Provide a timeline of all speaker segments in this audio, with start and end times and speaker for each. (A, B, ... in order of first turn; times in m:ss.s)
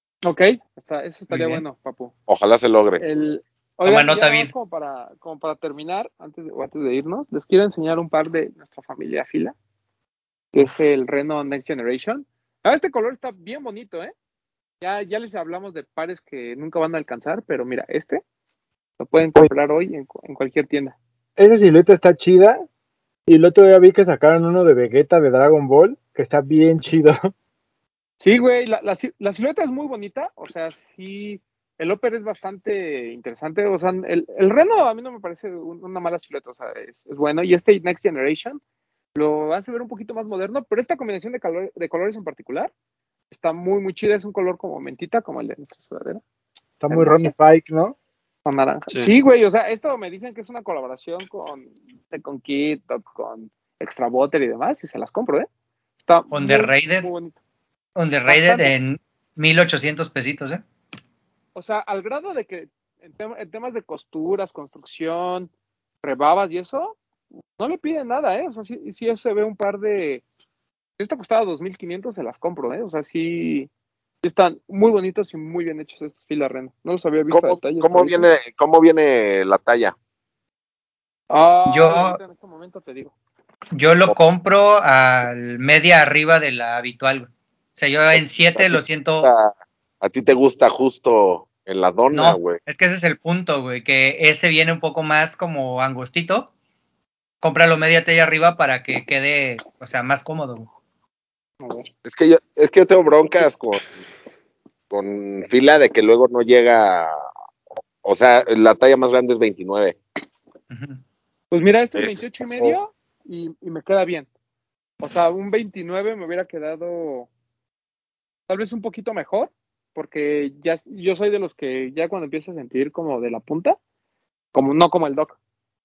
0:00.2-0:02.1 A
0:01.3-0:01.6 B
0:02.3-0:03.0 C
0:03.0-0:09.6 A
0:03.9-0:04.5 B
0:10.5-0:14.1 A
0:14.8-0:18.2 A
0:19.0-0:21.0 A
0:21.4-0:22.6 D
0:23.3-0:27.3 D
0:28.2-0:38.6 A
0:39.1-0:42.7 A
0:43.3-0:46.2 A
0:46.8-0:48.0 D
0:46.9-0:47.3 A
0:48.4-0:55.5 A
0:56.1-0:57.4 A
0:56.3-0:57.1 B
0:58.0-1:00.6 B
0:58.3-0:58.7 A
1:01.6-1:05.5 A
1:06.0-1:07.0 A
1:07.6-1:10.2 A
1:11.0-1:13.7 A
1:14.2-1:18.3 A
1:17.3-1:20.0 C
1:21.3-1:23.2 A
1:21.7-1:22.2 B
1:23.7-1:29.3 B
1:28.1-1:32.6 C
1:32.1-1:36.5 B
1:37.4-1:40.7 B
1:41.6-1:41.9 A
1:42.0-1:43.9 C
1:44.9-1:47.2 C
1:48.0-1:50.0 C
1:50.7-1:51.0 B
1:51.5-1:54.3 A
1:52.0-1:52.7 C
1:55.0-1:57.3 A
1:58.5-2:03.8 A
2:04.5-2:05.4 A